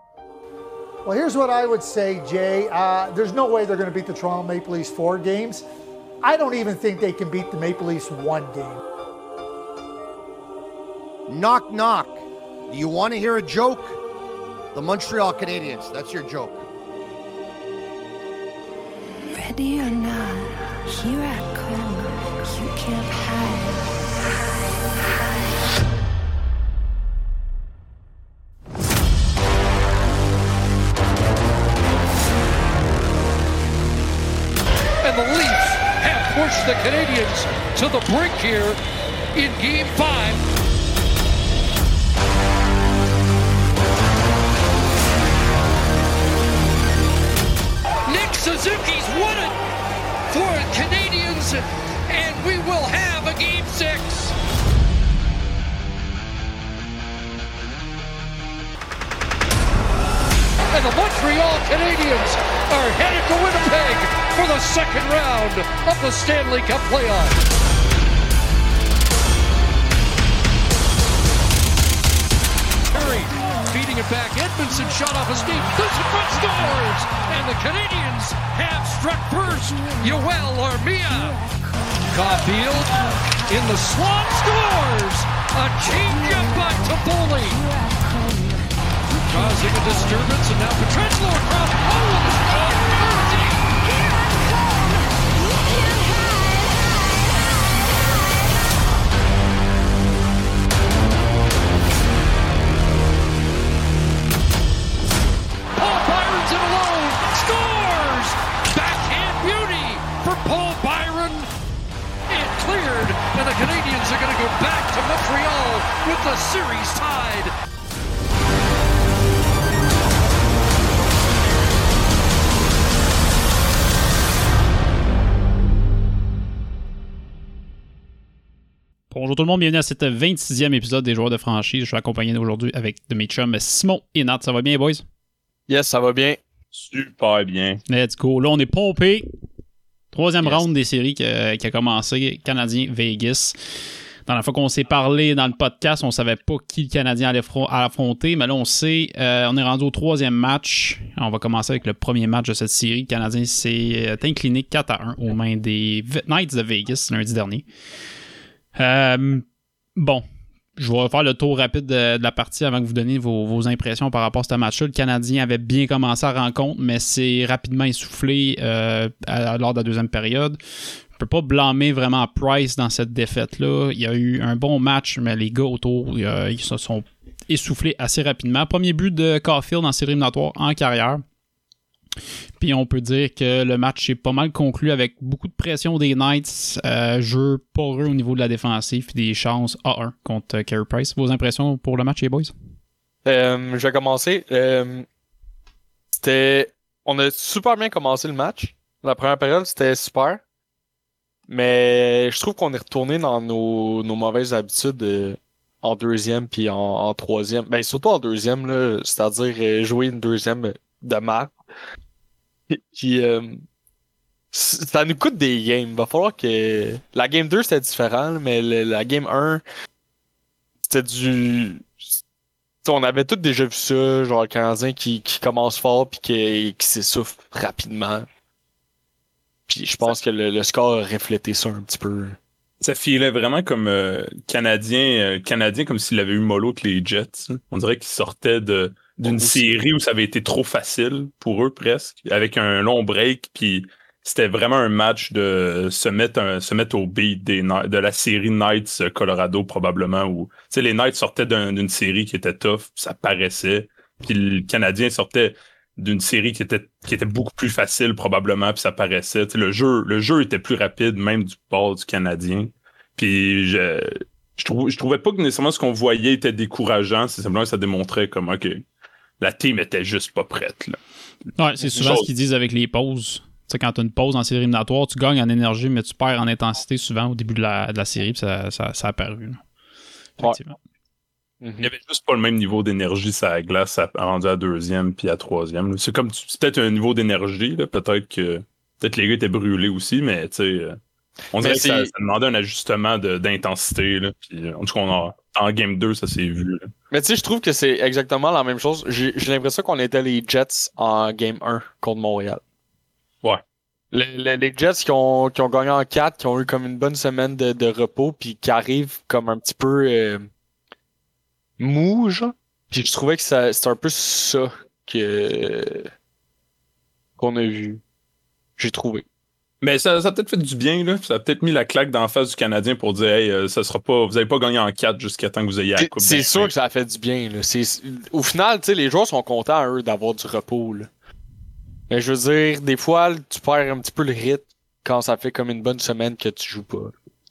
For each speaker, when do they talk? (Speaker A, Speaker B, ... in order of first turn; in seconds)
Speaker A: 1.1-5.7, 6.2-8.8
Speaker B: 11.3-14.0, 14.7-16.6
Speaker C: 19.3-23.9, 87.9-88.6
Speaker D: 35.0-38.8, 39.4-40.4, 48.1-49.6, 50.3-54.4, 60.7-67.4, 72.9-81.4, 82.1-87.7, 89.3-93.7, 105.8-111.5, 112.3-117.5
Speaker E: 129.1-135.0, 137.9-139.3, 140.1-143.6, 144.3-157.7, 158.8-159.4, 160.0-160.2, 160.8-170.6, 171.1-181.2, 182.6-192.5, 271.6-279.6, 280.4-280.8
Speaker F: 135.7-136.4, 193.2-195.1, 196.1-200.4, 201.5-211.6, 212.7-213.6, 214.5-219.6, 220.8-221.9, 222.8-228.3, 229.7-232.4, 239.3-239.7, 281.6-281.9, 291.6-292.1, 297.1-302.6, 304.1-310.5, 311.8-316.1, 317.4-318.0, 318.8-319.2, 326.0-331.1, 332.1-337.1
Speaker G: 136.7-137.8, 232.8-268.8, 269.4-271.0, 272.0-272.3, 281.8-291.0, 291.5-296.9, 319.8-326.7